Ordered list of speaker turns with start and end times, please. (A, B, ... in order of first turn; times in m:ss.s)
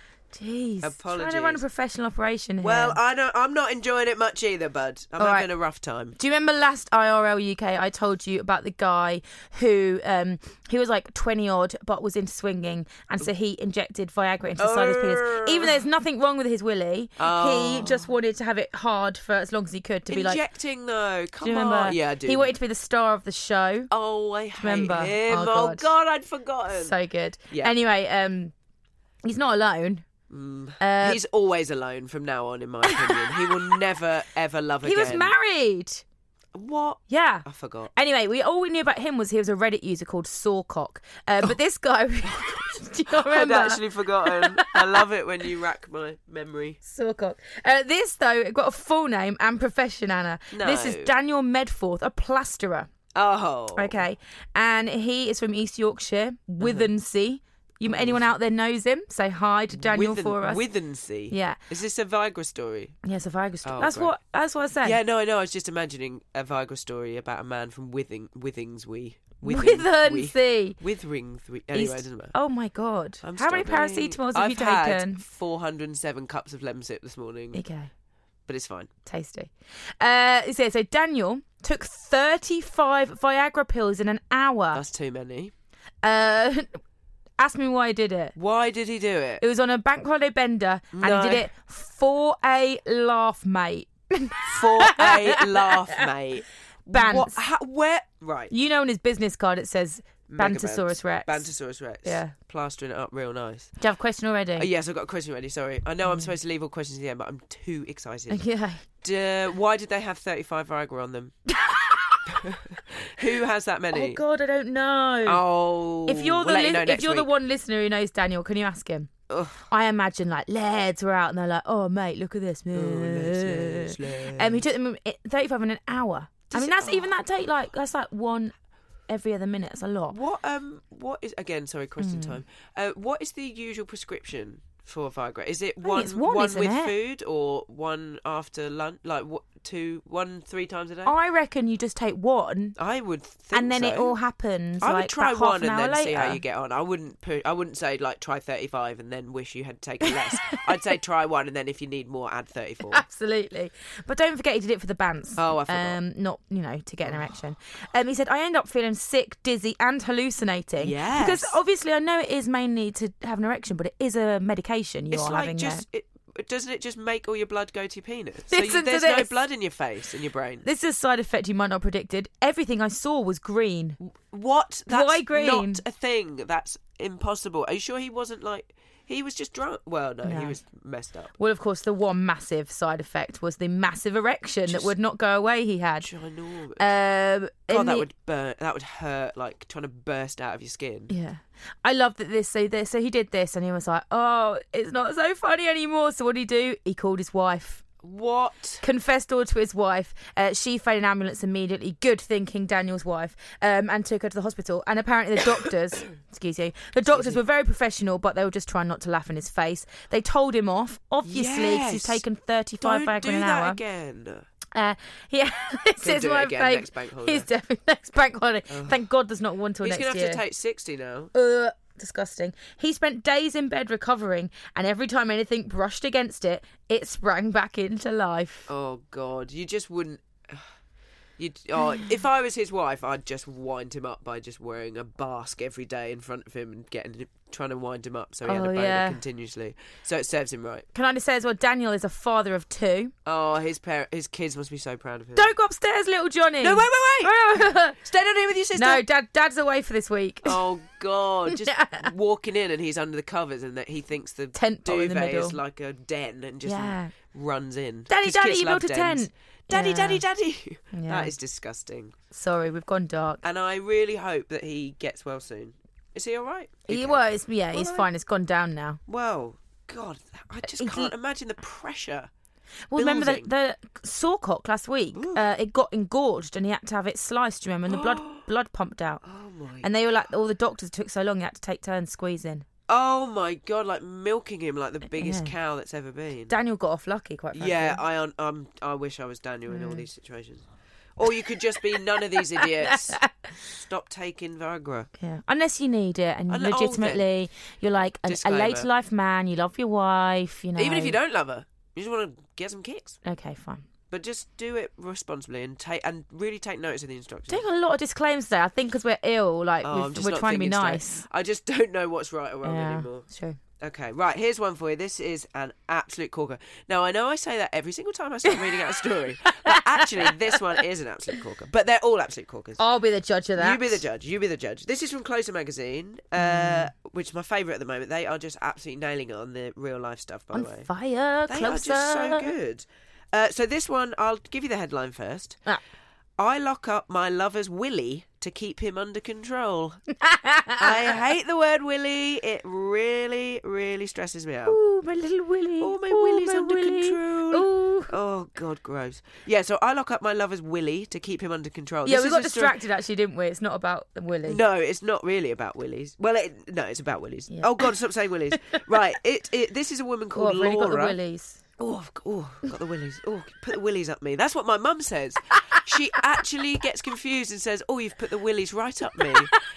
0:00.3-0:03.0 A
0:00.8-0:01.6 B
0:02.6-0:06.2 B
0:05.2-0:05.5 A
0:06.2-0:20.4 A
0:14.6-0:15.8 B
0:17.2-0:18.1 B
0:20.1-0:22.5 B
0:21.4-0:23.9 A
0:23.9-0:26.9 B
0:24.6-0:25.9 A
0:26.7-0:28.5 A
0:29.2-0:30.1 A
0:30.3-0:35.3 B
0:30.8-0:31.2 A
0:32.8-0:33.6 A
0:34.8-0:36.0 A
0:36.6-0:37.9 B
0:37.1-0:45.0 A
0:42.2-0:46.8 B
0:46.8-0:52.9 A
0:50.5-0:51.1 B
0:53.1-0:54.0 B
0:53.8-1:00.6 A
0:56.6-0:56.9 B
0:57.9-0:58.2 B
0:59.7-1:03.0 B
1:01.3-1:01.6 A
1:03.0-1:05.0 A
1:03.6-1:04.1 B
1:04.8-1:12.4 B
1:09.4-1:10.8 A
1:11.7-1:15.2 A
1:13.2-1:17.6 B
1:17.5-1:17.9 A
1:18.5-1:18.9 B
1:19.0-1:24.8 A
1:24.7-1:25.5 B
1:26.0-1:26.8 A
1:27.4-1:28.4 A
1:28.4-1:29.4 B
1:29.4-1:36.0 A
1:30.9-1:31.5 B
1:34.5-1:38.5 B
1:36.9-1:37.4 A
1:38.5-1:41.5 A
1:40.3-1:43.8 B
1:42.0-1:42.4 A
1:43.8-1:44.7 A
1:44.6-1:48.4 B
1:46.1-1:46.3 A
1:48.3-1:48.8 A
1:49.0-1:51.4 B
1:51.5-1:52.4 A
1:52.3-1:54.2 B
1:53.9-1:55.4 A
1:55.3-1:57.3 B
1:56.1-1:59.1 A
1:59.3-1:59.6 B
1:59.7-2:08.5 A
2:02.7-2:04.7 B
2:06.5-2:07.1 B
2:09.1-2:10.2 A
2:10.1-2:21.1 B
2:12.0-2:12.4 A
2:15.8-2:16.9 A
2:21.1-2:22.8 A
2:22.8-2:24.2 B
2:23.5-2:26.4 A
2:24.8-2:33.0 B
2:32.9-2:45.8 A
2:35.4-2:36.0 B
2:40.8-2:41.6 B
2:45.1-2:50.6 B
2:48.5-2:49.4 A
2:50.6-2:54.0 A
2:54.0-3:01.3 B
2:54.9-2:55.8 A
3:00.2-3:00.6 A
3:01.4-3:06.1 A
3:04.7-3:04.9 B
3:06.0-3:07.0 B
3:06.8-3:08.1 A
3:07.7-3:11.1 B
3:11.1-3:17.8 A
3:18.0-3:18.8 B
3:18.8-3:33.8 A
3:27.1-3:27.4 B
3:31.2-3:32.2 B
3:32.8-3:34.4 B
3:34.7-3:40.4 A
3:36.0-3:37.5 B
3:38.7-3:39.0 B
3:39.8-3:41.3 B
3:41.3-3:48.7 A
3:48.7-3:50.7 B
3:51.4-4:00.9 B
3:58.4-3:59.2 A
4:00.9-4:03.1 A
4:03.3-4:05.5 B
4:05.4-4:08.0 A
4:06.6-4:09.0 B
4:08.8-4:10.6 A
4:10.4-4:22.2 B
4:11.5-4:12.1 A
4:14.6-4:15.6 A
4:16.6-4:17.1 A
4:18.1-4:20.2 A
4:20.9-4:21.3 A
4:22.3-4:23.4 A
4:23.4-4:28.1 B
4:26.9-4:29.0 A
4:29.1-4:32.3 B
4:30.6-4:31.1 A
4:32.9-4:39.2 A
4:33.0-4:33.5 B
4:35.1-4:35.5 B
4:37.9-4:38.5 B
4:39.2-4:39.9 B
4:39.8-4:42.7 A
4:42.9-4:46.5 B
4:45.1-4:45.5 A
4:46.5-4:48.0 A
4:47.5-4:55.1 B
4:49.7-4:50.0 A
4:52.4-4:53.5 A
4:55.2-5:01.2 A
4:56.5-4:57.3 B
4:58.3-4:58.9 B
5:00.8-5:03.2 B
5:03.2-5:03.8 A
5:04.1-5:07.6 B
5:07.5-5:11.2 A
5:09.8-5:13.3 B
5:12.6-5:13.6 A
5:13.8-5:22.8 B
5:19.4-5:20.6 A
5:22.8-5:24.0 A
5:23.6-5:30.9 B
5:26.4-5:26.9 A
5:30.5-5:32.5 A
5:31.5-5:35.6 B
5:36.4-5:40.0 B
5:40.2-5:40.9 A
5:40.8-5:44.8 B
5:44.7-5:48.2 A
5:45.8-5:52.8 B
5:52.0-5:54.6 A
5:54.5-6:01.2 B
6:00.3-6:01.6 A
6:01.8-6:09.5 B